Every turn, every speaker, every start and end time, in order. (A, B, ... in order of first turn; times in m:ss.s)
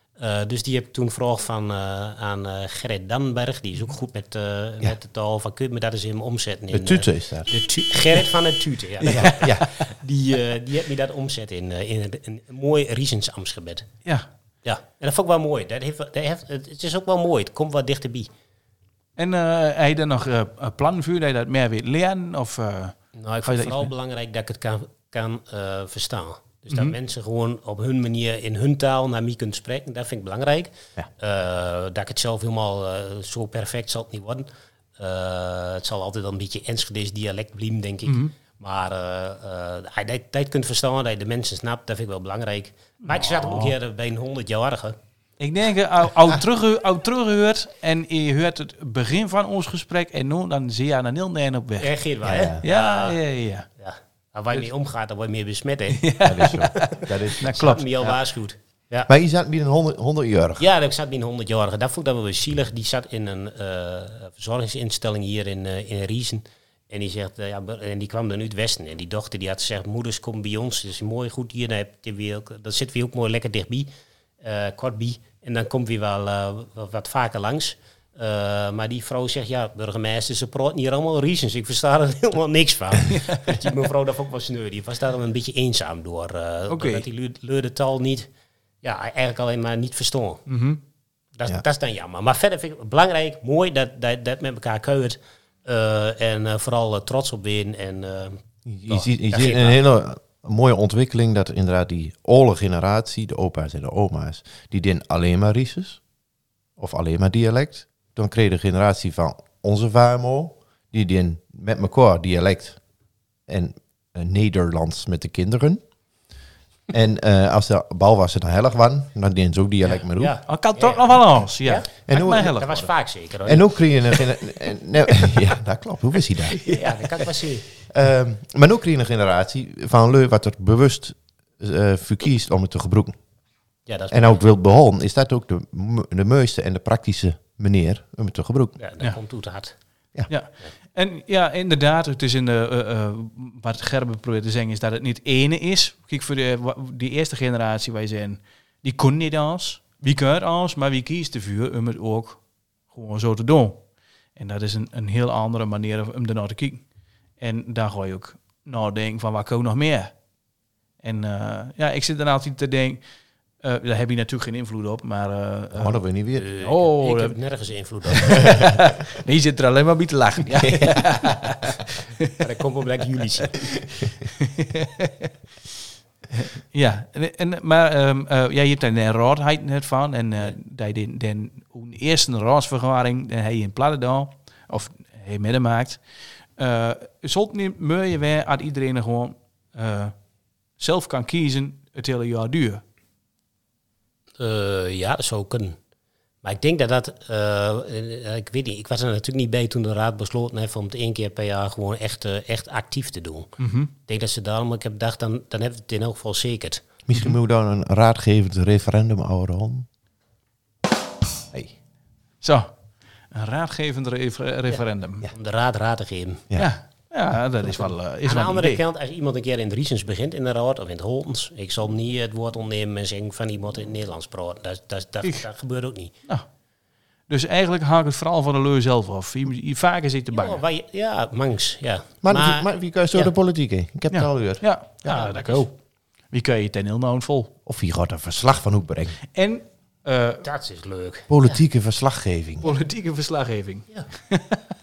0:00.2-0:13.9 A
0:06.7-0:07.5 B
0:09.1-0:09.5 C
0:09.1-0:09.7 B
0:14.6-0:18.3 A
0:19.2-0:23.9 C
0:23.2-0:34.5 A
0:35.0-0:45.0 A
0:38.1-0:38.3 C
0:43.1-0:43.7 C
0:45.4-0:52.0 C
0:51.8-0:53.2 A
0:52.2-0:52.6 B
0:52.6-0:53.7 C
0:53.8-0:59.1 A
0:56.0-0:58.1 C
0:56.2-0:57.8 B
0:59.1-1:00.6 B
1:00.6-1:13.9 A
1:14.4-1:28.3 A
1:23.1-1:23.6 C
1:26.7-1:27.1 C
1:28.8-1:30.5 A
1:30.5-1:30.8 C
1:31.4-1:39.8 A
1:38.7-1:46.0 B
1:46.8-1:52.8 B
1:53.5-1:55.8 B
1:56.9-2:00.4 B
2:00.2-2:03.9 A
2:00.5-2:02.9 C
2:02.1-2:02.6 B
2:03.5-2:06.6 B
2:06.6-2:07.2 C
2:06.7-2:07.7 A
2:07.9-2:13.2 B
2:13.9-2:14.4 A
2:14.1-2:18.8 B
2:18.8-2:19.8 A
2:20.3-2:33.8 C
2:34.4-2:36.8 C
2:37.4-2:40.1 C
2:41.0-2:43.0 C
2:43.6-2:46.0 C
2:45.7-2:46.5 B
2:46.4-2:48.6 A
2:46.6-2:47.4 C
2:48.2-2:52.3 C
2:48.2-2:48.7 B
2:50.6-2:51.2 B
2:52.4-2:53.6 A
2:54.4-2:55.3 C
2:56.3-3:06.0 C
3:06.6-3:10.1 C
3:10.8-3:12.8 C
3:14.4-3:15.8 A
3:16.4-3:23.5 A
3:23.6-3:23.9 C
3:24.1-3:26.8 A
3:27.1-3:29.9 B
3:32.4-3:32.7 C
3:33.3-3:35.3 C
3:34.7-3:36.4 A
3:36.6-3:38.8 C
3:38.2-3:46.1 A
3:47.3-3:50.6 C
3:50.3-3:53.3 A
3:52.2-3:54.7 B
3:54.1-3:55.8 C
3:55.1-3:55.7 A
3:56.3-3:57.5 C
3:57.7-3:59.2 B
3:59.3-4:00.4 C
4:00.4-4:01.6 A
4:01.3-4:02.7 B
4:02.6-4:04.6 C